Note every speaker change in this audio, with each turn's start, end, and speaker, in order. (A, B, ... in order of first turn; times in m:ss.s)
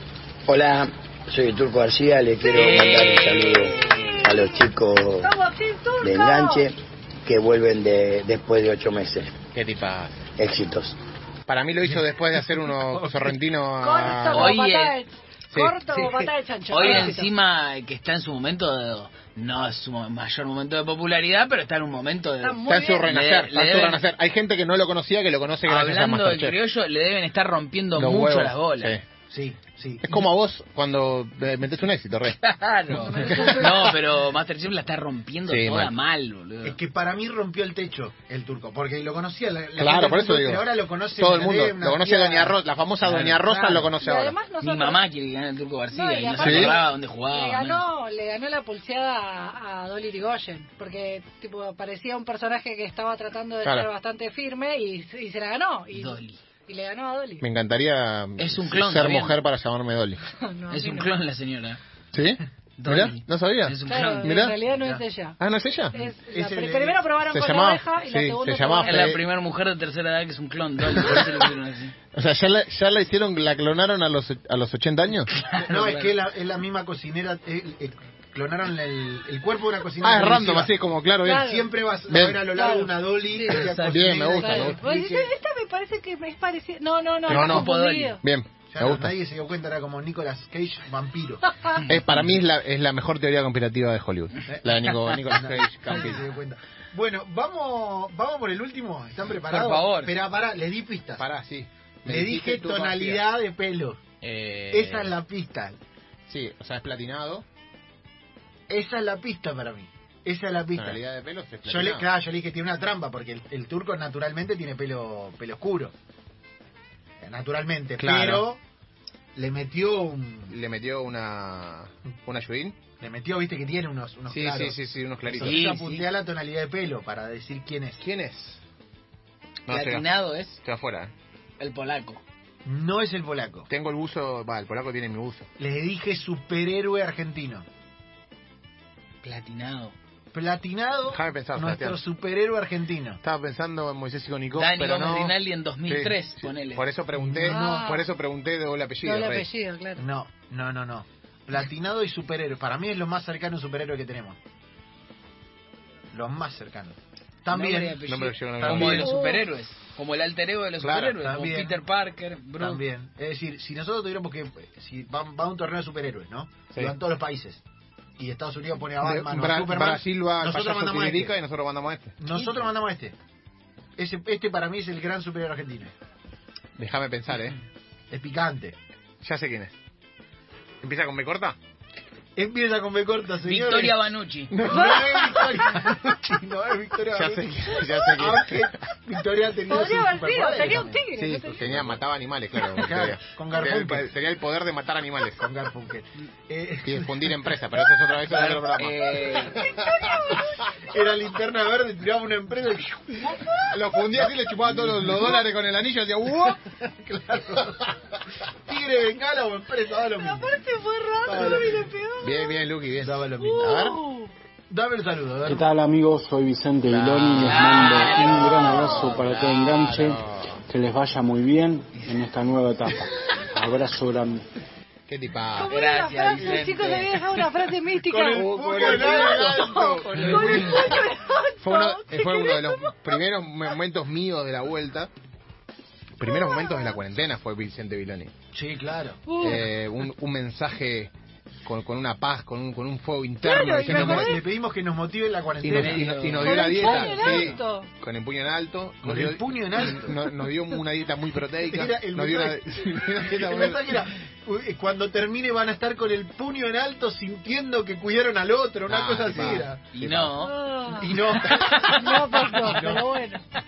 0:00.5-0:05.3 A
0:02.4-0:04.3 B
0:03.7-0:06.7 C
0:06.0-0:09.4 A
0:09.5-0:10.3 D
0:10.4-0:11.0 A
0:11.5-0:14.6 D
0:11.8-0:13.3 E
0:13.8-0:17.3 C
0:14.3-0:15.0 B
0:15.9-0:16.3 E
0:16.7-0:24.0 B
0:22.4-0:23.1 C
0:22.6-0:26.6 D
0:25.6-0:29.0 B
0:27.9-0:29.0 D
0:29.3-0:30.3 E
0:30.0-0:32.4 D
0:32.4-0:36.8 B
0:32.9-0:34.0 C
0:35.5-0:35.9 D
0:36.6-0:42.6 E
0:39.8-0:44.4 D
0:43.0-0:43.4 B
0:43.4-0:43.9 E
0:43.8-0:45.0 C
0:44.6-0:47.8 B
0:45.9-0:57.4 C
0:46.4-0:46.7 D
0:53.6-0:53.9 D
0:55.9-0:56.4 B
0:57.4-1:00.2 D
0:58.4-0:59.4 B
1:00.5-1:01.1 C
1:00.7-1:01.8 B
1:02.1-1:04.6 D
1:02.8-1:04.3 B
1:03.8-1:05.4 C
1:04.7-1:05.0 E
1:05.4-1:05.9 D
1:05.9-1:09.2 C
1:06.0-1:07.1 E
1:07.2-1:09.2 D
1:08.8-1:11.9 B
1:11.0-1:11.3 D
1:12.1-1:15.3 D
1:15.4-1:16.2 B
1:15.6-1:20.7 E
1:20.0-1:21.5 D
1:21.2-1:21.7 C
1:21.3-1:25.3 E
1:22.1-1:22.4 D
1:22.4-1:23.7 C
1:23.6-1:24.2 B
1:23.9-1:24.8 D
1:24.3-1:28.2 C
1:27.3-1:28.2 B
1:27.3-1:29.1 D
1:28.7-1:31.4 E
1:31.9-1:36.2 D
1:34.5-1:41.2 E
1:39.4-1:40.1 B
1:41.2-1:43.2 D
1:42.0-1:44.0 E
1:44.2-1:45.1 D
1:44.7-1:45.8 E
1:46.3-1:47.4 D
1:48.7-1:51.0 E
1:50.8-1:52.1 D
1:51.6-1:55.9 E
1:57.2-1:58.6 E
1:58.0-1:58.5 D
1:59.3-2:00.5 E
2:00.5-2:02.8 D
2:03.0-2:08.0 E
2:04.3-2:05.6 D
2:05.4-2:06.1 B
2:08.0-2:08.6 D
2:09.7-2:10.0 D
2:09.7-2:10.6 B
2:10.6-2:11.1 D
2:11.6-2:12.2 B
2:12.6-2:13.7 E
2:13.7-2:15.5 D
2:15.6-2:17.6 E
2:19.2-2:19.9 B
2:20.3-2:23.2 E
2:21.1-2:22.0 D
2:23.2-2:25.3 D
2:24.6-2:26.8 B
2:25.9-2:29.5 D
2:27.1-2:27.8 E
2:27.4-2:28.0 C
2:29.0-2:30.0 C
2:30.0-2:34.4 E
2:36.1-2:38.0 E
2:37.5-2:42.8 B
2:38.0-2:39.1 D
2:38.7-2:39.5 C
2:40.8-2:41.2 D
2:41.2-2:41.8 E
2:42.6-2:47.6 E
2:48.2-2:51.3 E
2:49.0-2:52.2 D
2:52.2-2:53.1 E
2:54.0-2:55.9 E
2:56.8-2:57.6 D
2:58.1-2:58.8 E
2:59.2-2:59.7 D
3:00.8-3:01.6 D
3:02.4-3:11.0 E
3:03.4-3:04.8 B
3:04.7-3:05.6 C
3:07.1-3:08.6 D
3:07.8-3:08.1 C
3:09.7-3:11.9 C
3:11.1-3:15.4 D
3:12.7-3:14.1 E
3:15.4-3:17.4 E
3:16.8-3:19.9 D
3:18.3-3:19.6 B
3:19.6-3:20.7 C
3:20.8-3:25.4 E
3:23.7-3:26.6 D
3:26.4-3:28.0 E
3:28.6-3:30.6 E
3:30.1-3:32.6 C
3:31.2-3:31.9 E
3:32.2-3:34.0 D
3:33.0-3:33.8 E
3:33.4-3:34.3 C
3:34.7-3:35.6 E
3:35.4-3:44.4 F
3:36.9-3:40.6 D
3:37.3-3:39.5 B
3:38.0-3:39.0 C
3:45.1-3:45.7 D
3:45.6-3:53.2 C
3:45.7-3:47.7 B
3:48.0-3:50.9 E
3:48.3-3:50.8 D
3:51.6-3:55.1 D
3:56.2-3:58.3 D
3:56.2-3:57.0 C
3:58.5-3:59.2 E
3:59.2-3:59.7 C
3:59.4-4:01.1 D
4:01.6-4:04.3 D
4:03.4-4:04.4 C
4:03.8-4:07.6 E
4:05.6-4:13.9 D
4:05.7-4:07.0 B
4:06.4-4:07.9 C
4:09.0-4:10.2 E
4:11.6-4:19.8 E
4:18.9-4:20.3 D
4:19.9-4:20.6 B
4:20.4-4:23.4 C
4:20.9-4:23.1 E